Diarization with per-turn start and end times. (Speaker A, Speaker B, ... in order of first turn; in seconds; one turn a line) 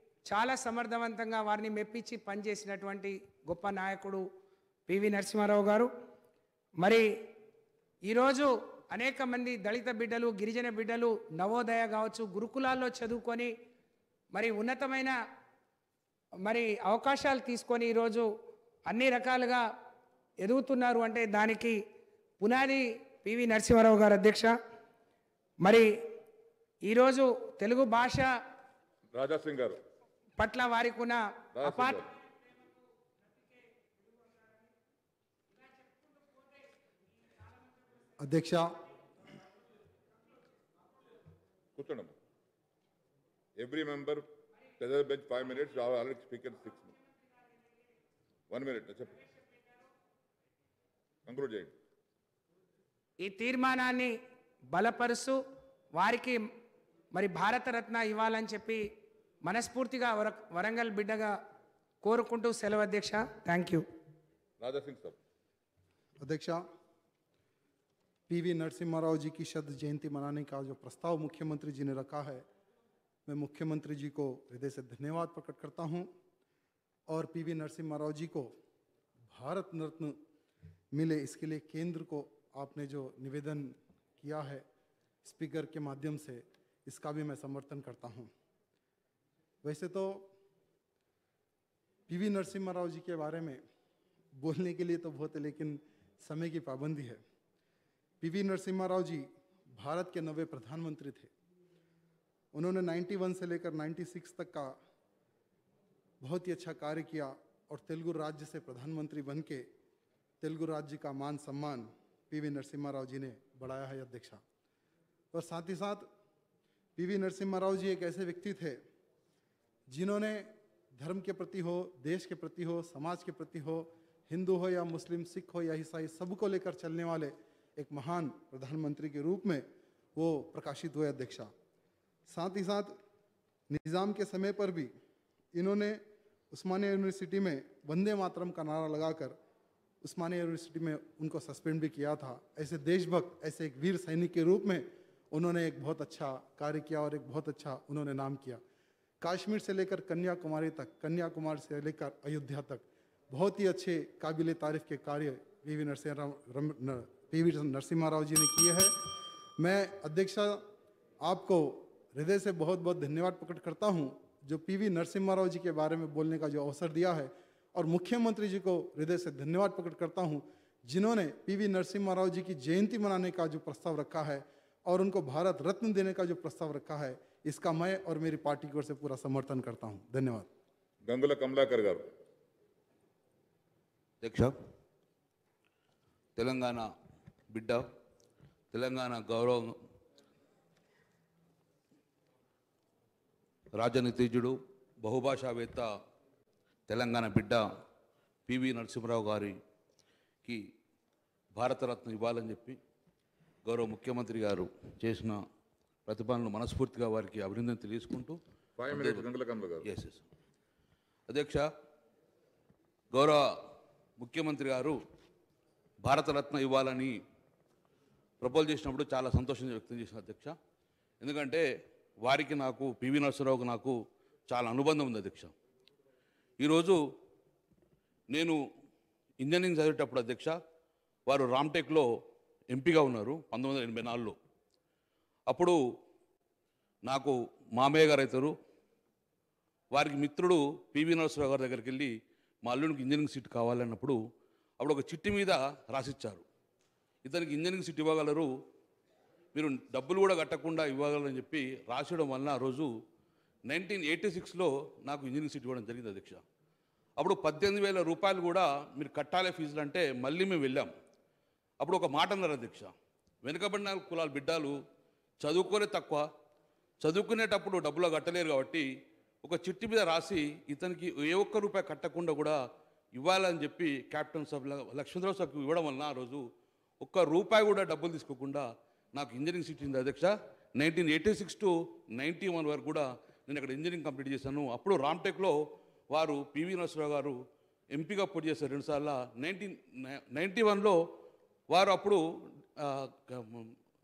Speaker A: 0.3-4.2
Speaker A: 4.9-5.9
Speaker A: 6.8-7.1
Speaker A: 8.1-13.5
Speaker A: 14.3-15.2
Speaker A: 16.4-18.3
Speaker A: 18.9-19.7
Speaker A: 20.4-21.8
Speaker A: 22.4-24.6
Speaker A: 25.6-25.9
Speaker A: 26.9-28.3
Speaker B: 29.1-29.8
Speaker A: 30.4-32.0
Speaker B: 31.6-32.0
Speaker C: 38.2-38.7
Speaker B: 41.8-42.1
Speaker B: 43.6-44.2
Speaker B: 44.8-46.9
Speaker B: 48.5-49.2
Speaker B: 51.2-51.7
Speaker A: 53.2-54.1
Speaker A: 54.7-55.4
Speaker A: 56.0-56.4
Speaker A: 57.1-58.8
Speaker A: 59.5-61.3
Speaker A: 62.0-63.8
Speaker B: 64.6-65.2
Speaker C: 66.2-66.6
Speaker C: 68.3-72.5
Speaker C: 73.3-76.1
Speaker C: 77.1-78.5
Speaker C: 79.3-80.2
Speaker C: 80.9-84.6
Speaker C: 85.2-88.3
Speaker C: 89.6-90.3
Speaker C: 92.1-93.6
Speaker C: 94.4-97.2
Speaker C: 98.2-101.3
Speaker C: 102.5-104.7
Speaker C: 106.2-109.7
Speaker C: 110.4-114.4
Speaker C: 115.3-116.1
Speaker C: 117.0-118.8
Speaker C: 119.9-131.5
Speaker C: 132.3-133.0
Speaker C: 133.7-134.9
Speaker C: 135.5-136.0
Speaker C: 136.5-139.3
Speaker C: 140.0-148.6
Speaker C: 149.2-158.9
Speaker C: 159.6-160.6
Speaker C: 161.2-180.5
Speaker B: 181.0-182.1
Speaker D: 184.2-184.5
Speaker D: 186.3-186.9
Speaker D: 187.5-187.9
Speaker D: 188.7-189.8
Speaker D: 193.8-195.9
Speaker D: 196.9-197.7
Speaker D: 198.5-199.6
Speaker D: 201.6-202.8
Speaker D: 203.7-205.4
Speaker D: 206.1-208.4
Speaker B: 208.8-209.8
Speaker D: 208.9-209.2
Speaker D: 209.8-210.2
Speaker D: 211.3-211.7
Speaker D: 213.1-213.4
Speaker D: 214.2-215.0
Speaker D: 216.0-217.2
Speaker D: 218.4-220.6
Speaker D: 221.2-221.7
Speaker D: 222.2-225.5
Speaker D: 226.6-227.0
Speaker D: 228.3-228.6
Speaker D: 229.4-230.6
Speaker D: 231.3-232.1
Speaker D: 232.7-234.4
Speaker D: 235.5-235.8
Speaker D: 237.1-238.5
Speaker D: 239.9-242.1
Speaker D: 242.7-244.2
Speaker D: 244.8-246.4
Speaker D: 247.2-248.5
Speaker D: 249.5-252.9
Speaker D: 253.7-256.4
Speaker D: 257.2-260.9
Speaker D: 261.8-262.9
Speaker D: 263.4-264.8
Speaker D: 265.4-266.3
Speaker D: 267.0-268.9
Speaker D: 269.4-272.6
Speaker D: 273.1-276.5
Speaker D: 277.0-285.6
Speaker D: 286.1-287.4
Speaker D: 287.9-291.0
Speaker D: 291.7-292.2
Speaker D: 292.8-293.7